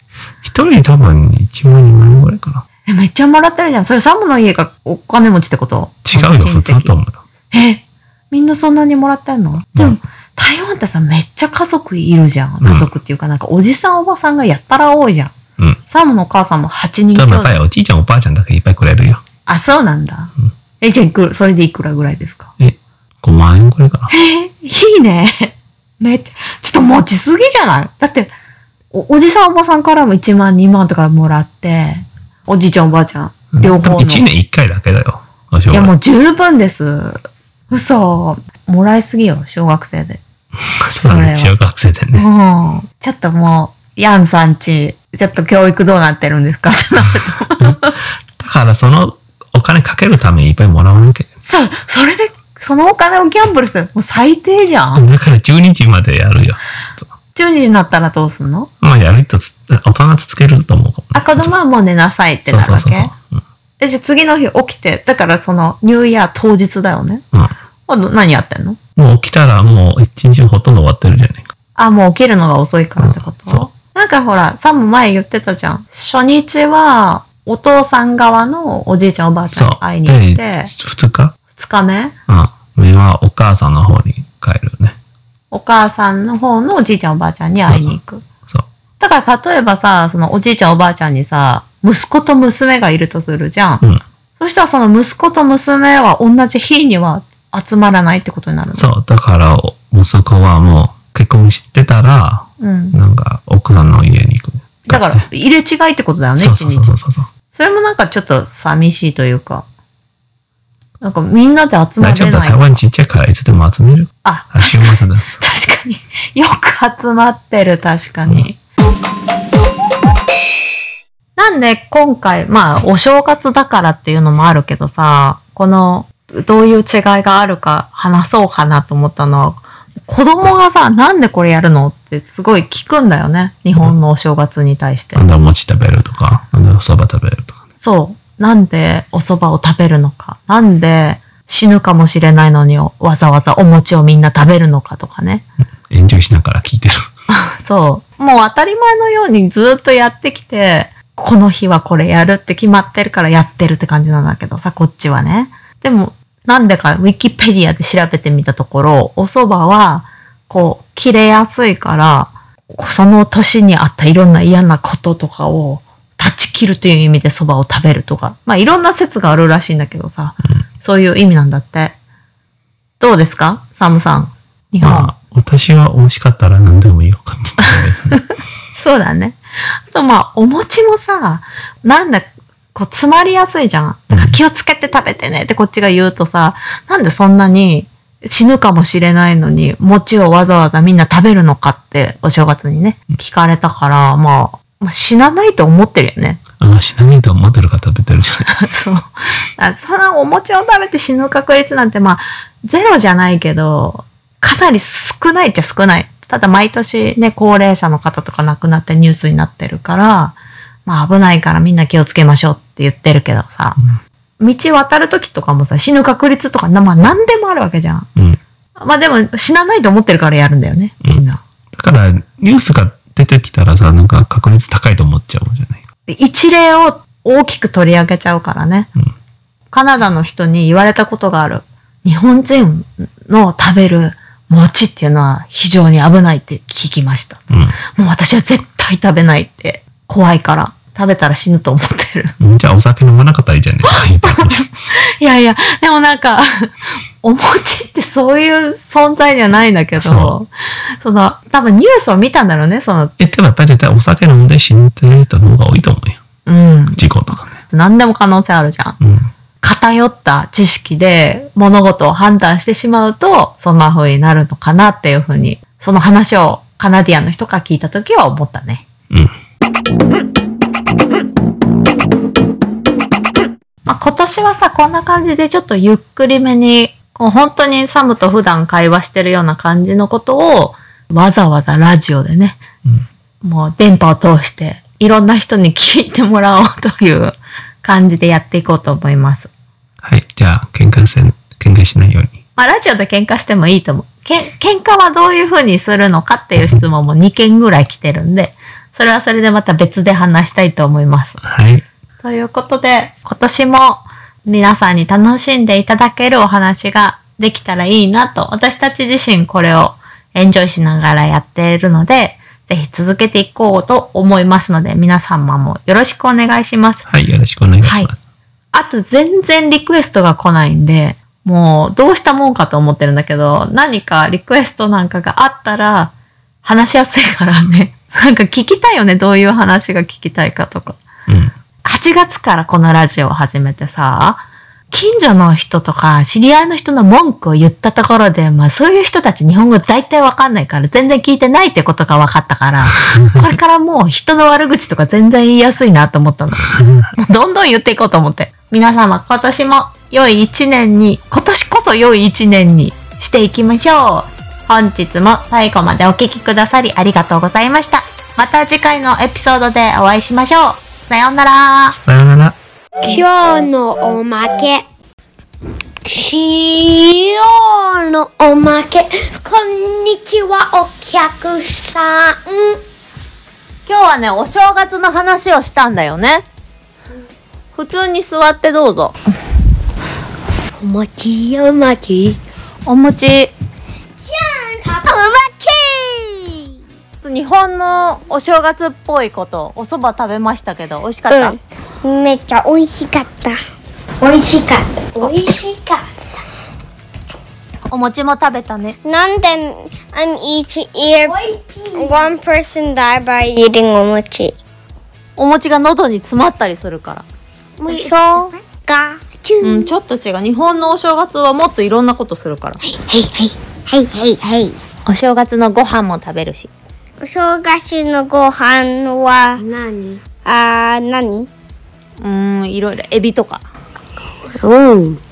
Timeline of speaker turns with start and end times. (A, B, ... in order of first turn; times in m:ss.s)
0:00.4-0:02.6 A
0:02.9-0:07.0 B
0:06.1-0:07.2 A
0:07.5-0:15.3 B
0:12.6-0:12.9 A
0:15.9-0:17.6 B
0:17.2-0:19.2 A
0:19.5-0:22.5 B
0:22.6-0:24.1 A
0:24.1-0:28.3 B
0:28.9-0:34.3 B
0:33.5-0:35.9 A
0:35.7-0:40.2 B
0:40.7-0:42.3 A
0:41.0-0:41.5 B
0:42.1-0:48.0 B
0:48.4-0:51.3 A
0:51.4-0:55.0 B
0:55.0-0:57.1 A
0:57.4-0:58.7 B
0:58.8-1:01.6 A
1:01.1-1:03.1 B
1:02.5-1:03.4 A
1:03.8-1:07.2 B
1:07.9-1:08.8 B
1:09.0-1:11.4 A
1:11.8-1:20.7 B
1:13.0-1:13.7 A
1:19.5-1:21.4 A
1:21.6-1:22.2 B
1:22.3-1:25.0 A
1:25.5-1:28.2 B
1:27.6-1:28.0 A
1:29.0-1:33.8 B
1:34.4-1:38.9 B
1:38.8-1:45.2 A
1:42.6-1:43.0 B
1:44.9-1:47.0 B
1:46.4-1:47.3 A
1:47.5-1:49.7 B
1:51.0-1:52.8 B
1:52.0-1:55.4 A
1:54.2-1:58.6 B
2:01.4-2:15.3 B
2:15.2-2:17.6 A
2:17.8-2:25.4 B
2:25.9-2:27.1 A
2:27.3-2:52.0 B
2:53.0-2:55.1 B
2:54.8-2:58.2 A
2:58.8-2:59.4 B
2:59.9-3:16.4 B
3:04.1-3:04.4 A
3:16.6-3:18.5 A
3:18.5-3:33.8 B
3:34.4-3:38.1 B
3:38.8-3:41.4 B
3:41.7-3:45.8 A
3:46.1-3:48.9 B
3:49.7-3:57.4 B
3:57.5-3:57.8 A
3:58.0-4:02.4 B
4:02.4-4:04.7 A
4:03.8-4:13.1 B
4:10.0-4:10.4 A
4:13.2-4:16.2 A
4:16.5-4:17.1 B
4:17.0-4:17.6 A
4:17.7-4:19.0 B
4:19.0-4:19.3 A
4:19.6-4:28.9 B
4:33.9-4:42.6 B
4:43.4-4:49.5 B
4:50.0-4:52.4 A
4:52.6-5:01.4 B
5:01.4-5:01.8 A
5:02.2-5:17.0 B
5:17.1-5:18.3 A
5:17.8-5:18.1 B
5:18.7-5:26.1 B
5:26.6-5:31.0 B
5:31.3-5:31.5 A
5:31.8-6:02.0 B
5:43.0-5:43.6 A
6:01.9-6:02.6 A
6:03.0-6:04.8 C
6:06.0-6:12.8 C
6:13.9-6:16.5 B
6:17.8-6:19.2 B
6:20.8-6:22.4 C
6:22.9-6:23.5 B
6:24.3-6:26.5 C
6:27.2-6:31.6 B
6:31.3-6:33.6 C
6:34.2-6:36.1 C
6:37.9-6:39.0 B
6:39.0-6:44.6 C
6:45.4-6:47.2 B
6:47.8-6:49.9 C
6:47.9-6:48.5 B
6:49.6-6:52.8 B
6:52.8-6:54.8 C
6:55.1-6:56.7 B
6:57.2-6:59.7 C
7:00.2-7:01.5 C
7:02.2-7:03.6 B
7:04.6-7:05.2 C